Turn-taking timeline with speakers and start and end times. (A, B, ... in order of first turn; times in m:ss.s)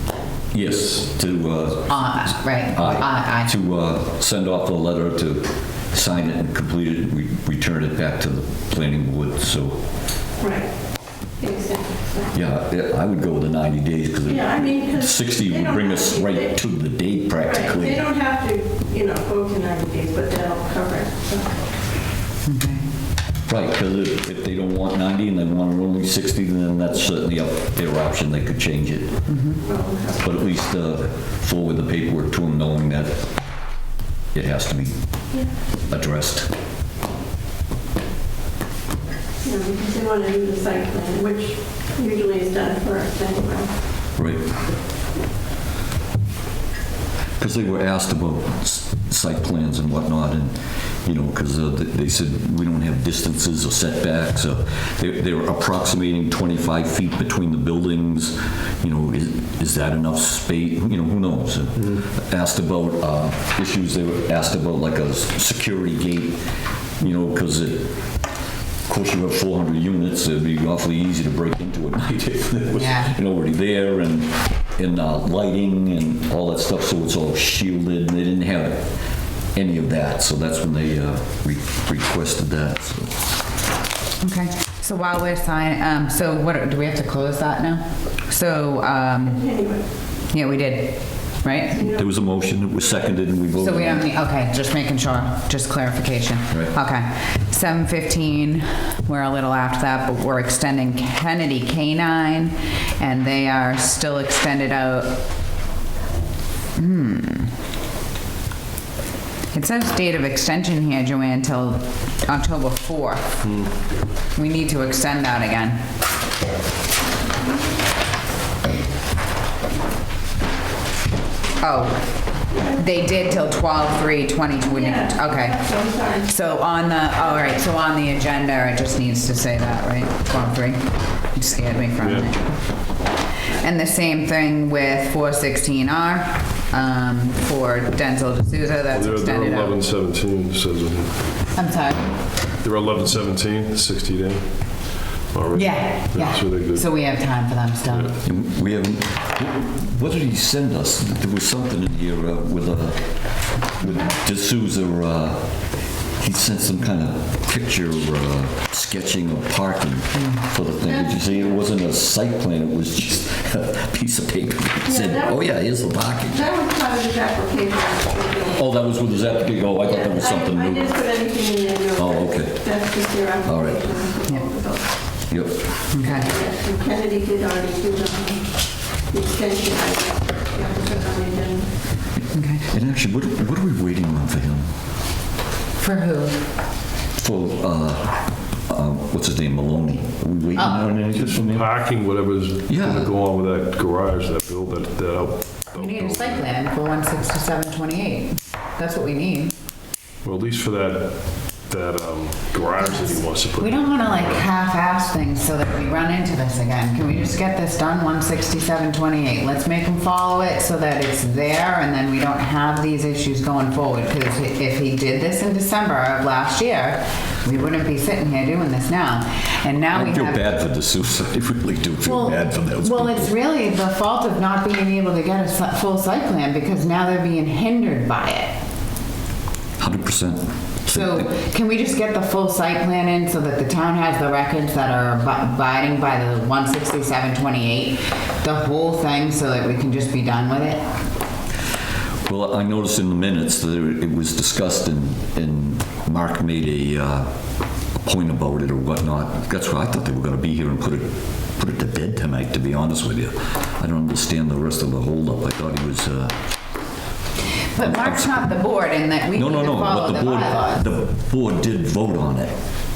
0:00.5-0:09.8 A
0:01.9-0:03.5 B
0:10.4-0:10.7 C
0:11.4-0:12.3 C
0:12.3-0:18.1 A
0:14.3-0:16.5 C
0:17.4-0:21.7 C
0:22.4-0:22.9 B
0:23.5-0:29.3 A
0:29.3-0:29.6 B
0:29.6-0:30.3 C
0:30.2-0:33.3 A
0:34.3-0:35.0 A
0:35.8-0:36.5 A
0:39.4-0:43.7 C
0:44.2-0:44.5 A
0:47.4-1:06.4 A
1:07.0-1:08.0 A
1:08.9-1:18.9 A
1:12.7-1:13.2 B
1:19.5-1:23.2 A
1:24.2-1:29.4 B
1:29.2-1:29.8 C
1:30.3-1:31.9 B
1:31.7-1:32.0 C
1:31.9-1:34.1 A
1:33.6-1:45.2 B
1:46.8-1:47.5 B
1:49.5-1:53.4 B
1:53.4-1:53.7 D
1:54.4-1:55.8 B
2:01.6-2:02.0 B
2:02.5-2:02.8 C
2:02.7-2:05.6 B
2:04.6-2:06.3 C
2:06.2-2:12.6 B
2:12.0-2:12.3 D
2:13.5-2:19.8 B
2:18.9-2:21.5 D
2:21.5-2:22.2 B
2:22.6-2:26.9 D
2:25.5-2:28.1 B
2:27.9-2:28.2 D
2:28.2-2:35.6 A
2:36.1-2:46.4 A
2:40.2-2:40.4 B
2:40.8-2:41.6 C
2:44.9-2:45.5 C
2:46.3-2:48.6 C
2:48.6-2:50.9 A
2:49.8-2:54.9 C
2:51.9-2:52.7 A
2:53.4-2:53.8 A
2:55.3-2:55.6 A
2:55.9-2:56.3 B
2:56.0-3:01.7 C
3:02.2-3:04.7 A
3:02.3-3:02.6 B
3:05.8-3:06.4 B
3:07.2-3:11.7 A
3:10.6-3:10.9 B
3:11.2-3:16.4 D
3:12.7-3:13.1 A
3:15.7-3:19.5 B
3:20.2-3:24.4 D
3:22.8-3:40.4 B
3:39.9-3:43.3 A
3:42.0-3:48.6 B
3:49.8-3:51.3 A
3:50.9-4:00.8 B
4:02.2-4:07.3 A
4:08.0-4:16.4 A
4:17.8-4:20.9 B
4:17.8-4:18.6 A
4:19.3-4:22.6 A